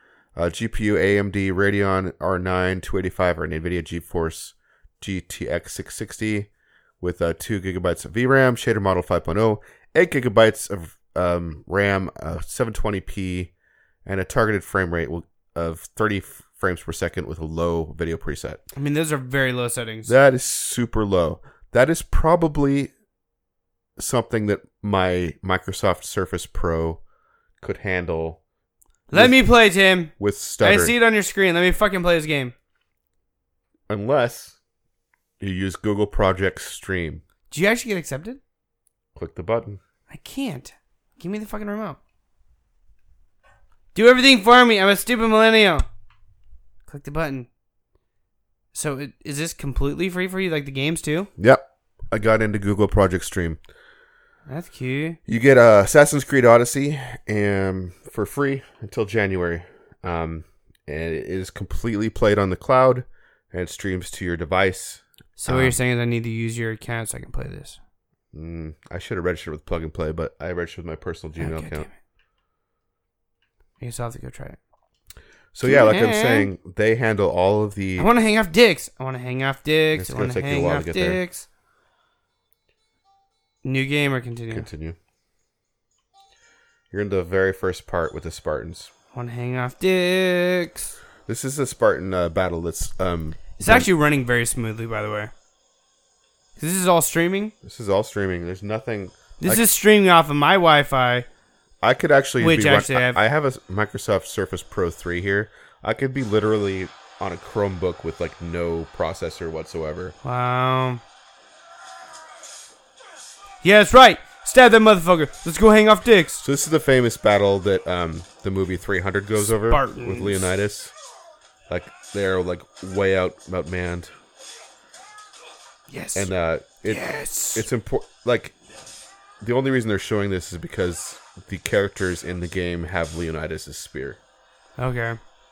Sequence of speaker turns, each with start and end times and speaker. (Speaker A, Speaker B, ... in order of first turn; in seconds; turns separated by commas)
Speaker A: 0.3-6.5, Speaker A: 7.0-13.5, Speaker A: 14.1-18.6, Speaker B: 18.7-20.1, Speaker A: 20.1-22.9, Speaker A: 24.0-27.0, Speaker A: 27.6-28.4, Speaker B: 29.1-32.5, Speaker A: 29.1-29.4, Speaker A: 30.2-30.9, Speaker A: 33.9-34.6, Speaker A: 35.4-37.2, Speaker B: 37.5-38.4, Speaker A: 39.1-39.8, Speaker B: 40.1-42.0, Speaker B: 43.9-45.8, Speaker B: 46.9-47.5, Speaker B: 48.7-51.3, Speaker A: 51.4-53.6, Speaker B: 54.5-55.2, Speaker A: 55.3-65.8, Speaker B: 65.4-67.8, Speaker A: 68.3-71.9, Speaker B: 71.4-71.9, Speaker B: 73.8-74.6, Speaker A: 75.5-78.1, Speaker B: 75.6-76.5, Speaker B: 78.0-81.5, Speaker A: 79.9-81.2, Speaker B: 83.6-84.7, Speaker A: 84.5-85.0, Speaker A: 86.9-88.9, Speaker B: 89.1-90.9, Speaker A: 91.3-93.9, Speaker B: 93.6-95.3, Speaker B: 96.6-97.5, Speaker A: 97.6-99.6, Speaker B: 99.4-101.2, Speaker A: 101.8-110.2, Speaker B: 102.4-103.2, Speaker B: 110.2-111.0, Speaker B: 113.6-116.4, Speaker A: 116.4-120.9, Speaker B: 119.4-120.5, Speaker A: 121.7-124.1, Speaker B: 125.9-126.3, Speaker A: 126.1-128.5, Speaker B: 126.8-127.6, Speaker A: 129.4-134.2, Speaker B: 134.8-135.2